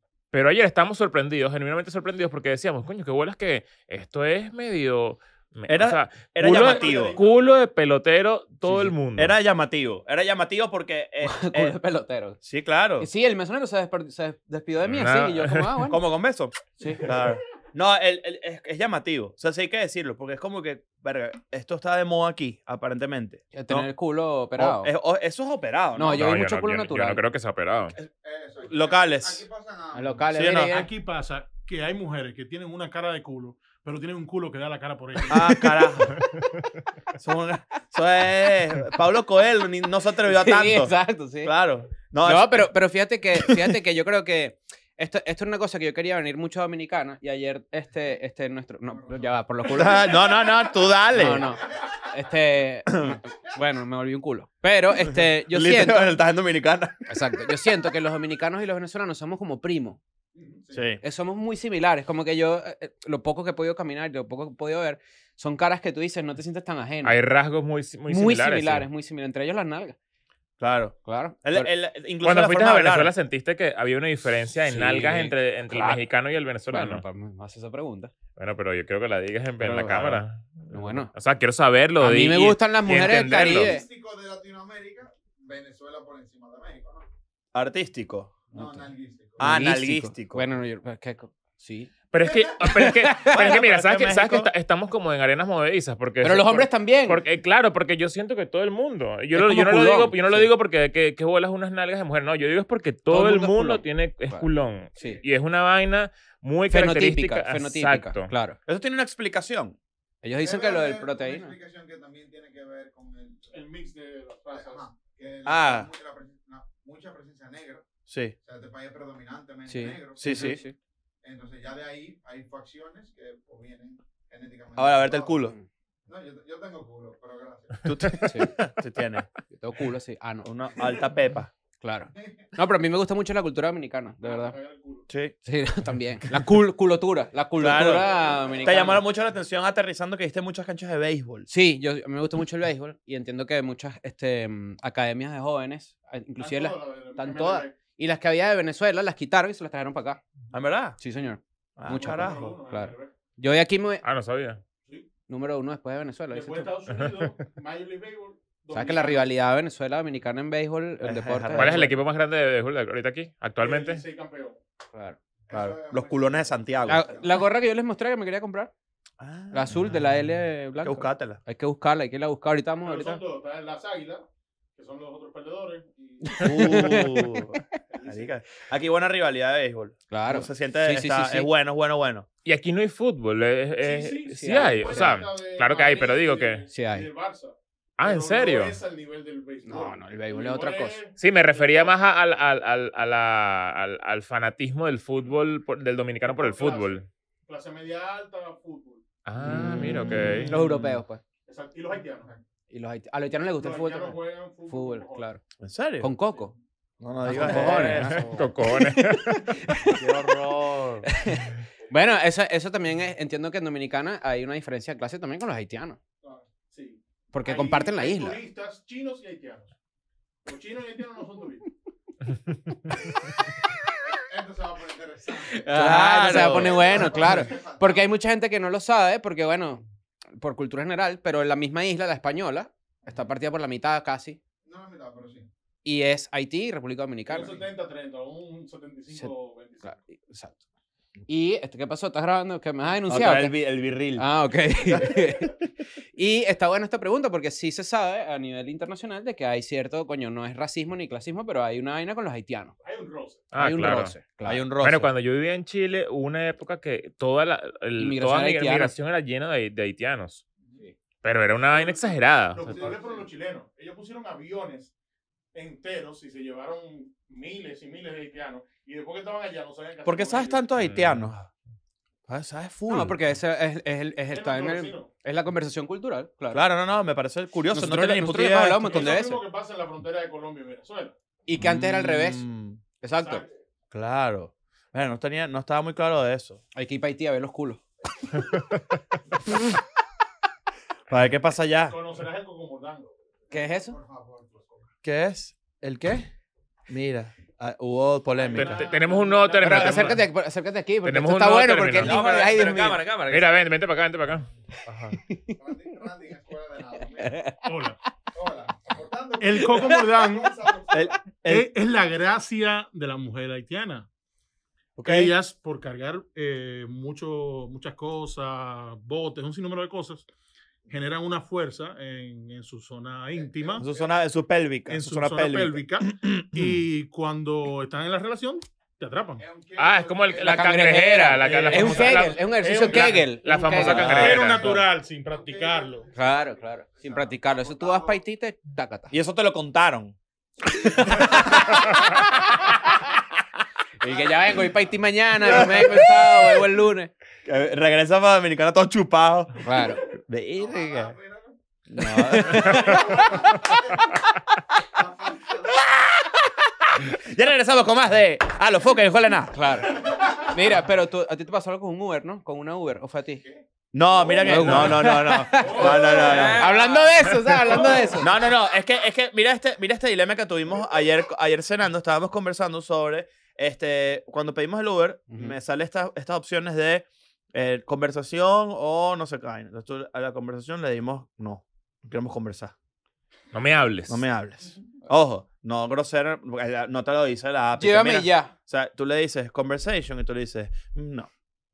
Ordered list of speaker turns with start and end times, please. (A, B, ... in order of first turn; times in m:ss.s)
0:00.3-0:09.3 A
0:05.7-0:07.2 B
0:06.4-0:07.5 C
0:08.7-0:11.8 B
0:11.2-0:12.4 D
0:12.4-0:13.1 B
0:13.0-0:16.0 D
0:14.8-0:15.7 A
0:15.9-0:23.9 B
0:16.8-0:17.1 D
0:23.5-0:24.9 D
0:24.6-0:26.4 B
0:26.0-0:27.2 D
0:26.1-0:28.0 A
0:28.2-0:30.3 E
0:28.6-0:29.4 B
0:29.9-0:30.9 D
0:30.3-0:30.7 B
0:30.6-0:35.7 C
0:35.3-0:36.2 B
0:37.1-0:42.7 B
0:40.2-0:41.5 D
0:42.2-0:50.3 D
0:43.4-0:43.8 B
0:48.9-0:50.8 E
0:49.7-0:51.5 B
0:51.1-0:56.2 D
0:52.9-0:53.2 B
0:55.1-0:57.0 B
0:57.1-1:00.0 D
1:00.4-1:00.6 C
1:00.7-1:01.0 B
1:01.0-1:07.2 D
1:07.0-1:08.8 A
1:08.1-1:10.0 D
1:10.6-1:13.1 B
1:11.0-1:11.7 D
1:12.2-1:17.0 A
1:14.7-1:16.0 D
1:16.7-1:18.1 D
1:18.4-1:23.7 A
1:19.6-1:20.2 D
1:20.7-1:21.1 D
1:22.0-1:23.8 D
1:23.5-1:27.0 E
1:27.5-1:28.4 B
1:28.5-1:29.6 E
1:28.5-1:28.9 D
1:29.4-1:30.5 B
1:29.4-1:31.9 D
1:32.1-1:48.3 A
1:32.2-1:32.5 E
1:32.6-1:33.4 D
1:33.2-1:34.5 B
1:36.2-1:37.2 D
1:39.3-1:40.5 D
1:43.1-1:44.4 D
1:46.7-1:48.6 D
1:48.7-1:49.8 B
1:50.2-1:51.5 D
1:50.4-1:53.5 E
1:53.5-1:54.8 C
1:54.5-1:57.8 E
1:55.4-1:55.9 B
1:58.1-1:58.3 B
1:58.4-2:00.6 E
1:59.7-2:00.7 D
2:00.2-2:00.6 B
2:01.2-2:05.4 E
2:04.8-2:05.6 B
2:06.1-2:08.2 E
2:07.8-2:09.3 B
2:08.2-2:08.5 D
2:09.5-2:10.5 D
2:10.4-2:11.5 B
2:11.8-2:14.6 D
2:12.2-2:12.4 E
2:14.2-2:15.1 C
2:15.4-2:19.0 D
2:17.6-2:21.5 B
2:18.2-2:18.6 C
2:21.5-2:30.2 D
2:26.4-2:27.7 C
2:30.5-2:31.0 B
2:31.0-2:34.0 D
2:31.8-2:32.5 B
2:31.9-2:33.1 C
2:34.0-2:34.6 A
2:35.3-2:36.7 D
2:36.3-2:39.2 C
2:38.7-2:41.9 D
2:41.0-2:41.9 B
2:41.5-2:44.0 A
2:43.6-2:44.6 C
2:45.5-2:47.4 E
2:45.5-2:47.0 B
2:46.8-2:48.7 D
2:49.2-2:49.9 B
2:49.5-2:53.2 D
2:50.8-2:51.4 B
2:52.8-2:54.2 C
2:54.8-2:57.1 C
2:56.3-2:57.4 D
2:56.4-3:02.2 B
2:57.9-2:58.3 C
3:00.1-3:01.5 D
3:02.4-3:06.6 A
3:03.8-3:12.0 C
3:04.4-3:05.2 D
3:06.7-3:07.1 D
3:08.0-3:08.8 A
3:09.6-3:11.0 D
3:11.2-3:17.0 A
3:16.2-3:19.0 C
3:19.2-3:20.5 A
3:19.4-3:21.0 B
3:19.5-3:21.2 D
3:21.4-3:22.3 C
3:22.1-3:22.4 E
3:22.7-3:25.4 D
3:23.6-3:25.3 C
3:25.6-3:26.1 B
3:26.0-3:26.5 D
3:27.0-3:28.5 B
3:27.2-3:30.4 D
3:27.4-3:29.6 A
3:29.9-3:31.1 B
3:31.0-3:36.0 D
3:36.2-3:39.7 C
3:37.3-3:38.4 D
3:40.4-3:41.6 C
3:44.0-3:45.7 E
3:45.5-3:49.8 D
3:45.7-3:47.4 B
3:46.2-3:48.1 E
3:50.4-3:54.4 D
3:54.6-3:55.5 E
3:55.8-3:57.6 D
3:57.3-3:59.9 C
3:59.8-4:00.6 D
4:01.3-4:03.6 D
4:03.1-4:04.3 B
4:04.2-4:05.6 D
4:06.2-4:12.7 D
4:12.8-4:13.5 C
4:13.5-4:14.2 A
4:13.5-4:14.6 D
4:14.4-4:15.1 B
4:14.8-4:20.4 A
4:18.0-4:18.9 D
4:21.2-4:22.9 A
4:21.7-4:24.9 C
4:22.7-4:23.3 E
4:25.5-4:30.7 C
4:30.0-4:31.5 B
4:30.8-4:31.3 A
4:32.3-4:33.2 B
4:32.9-4:36.6 D
4:34.3-4:35.1 C
4:36.5-4:39.2 B
4:37.7-4:39.4 D
4:38.8-4:41.1 C
4:41.5-4:42.4 D
4:41.6-4:42.8 B
4:43.0-4:43.4 D
4:43.2-4:43.5 C
4:43.9-4:46.6 B
4:46.7-4:47.8 D
4:51.1-4:52.0 B
4:51.9-4:53.2 C
4:53.5-4:54.0 D
4:53.5-4:54.9 E
4:55.0-4:56.3 B
4:56.9-4:58.8 B
4:58.4-5:00.2 C
4:58.5-5:00.2 A
4:59.6-5:03.0 D
5:01.0-5:02.2 A
5:02.0-5:03.6 F
5:03.3-5:05.1 A
5:05.2-5:05.6 D
5:05.6-5:07.5 E
5:07.2-5:07.6 D
5:07.6-5:08.0 C
5:08.3-5:11.2 E
5:09.4-5:10.6 C
5:10.9-5:11.7 B
5:11.4-5:14.1 C
5:15.0-5:15.3 B
5:15.0-5:20.3 C
5:20.9-5:23.9 C
5:23.3-5:24.0 E
5:23.8-5:26.8 B
5:24.9-5:29.4 C
5:29.4-5:30.8 E
5:29.8-5:34.8 A
5:30.4-5:34.5 D
5:31.4-5:36.1 C
5:34.2-5:38.2 E
5:36.1-5:39.1 D
5:39.1-5:40.2 B
5:40.7-5:41.8 D
5:44.0-5:47.1 D
5:44.0-5:44.7 E
5:45.4-5:46.2 B
5:47.4-5:51.2 B
5:49.6-5:50.0 D
5:50.6-5:51.5 E
5:51.9-5:53.4 B
5:52.0-5:53.2 D
5:52.5-5:54.2 E
5:54.8-5:55.9 E
5:55.7-5:59.6 B
5:59.5-6:03.4 D
6:00.0-6:00.4 E
6:03.4-6:04.5 E
6:03.9-6:06.7 B
6:04.4-6:08.3 D
6:04.6-6:05.0 A
6:05.5-6:06.6 C
6:06.2-6:07.3 F
6:07.7-6:08.2 C
6:08.2-6:22.7 B
6:15.3-6:15.6 D
6:23.5-6:24.2 A
6:24.1-6:31.3 B
6:27.8-6:28.5 D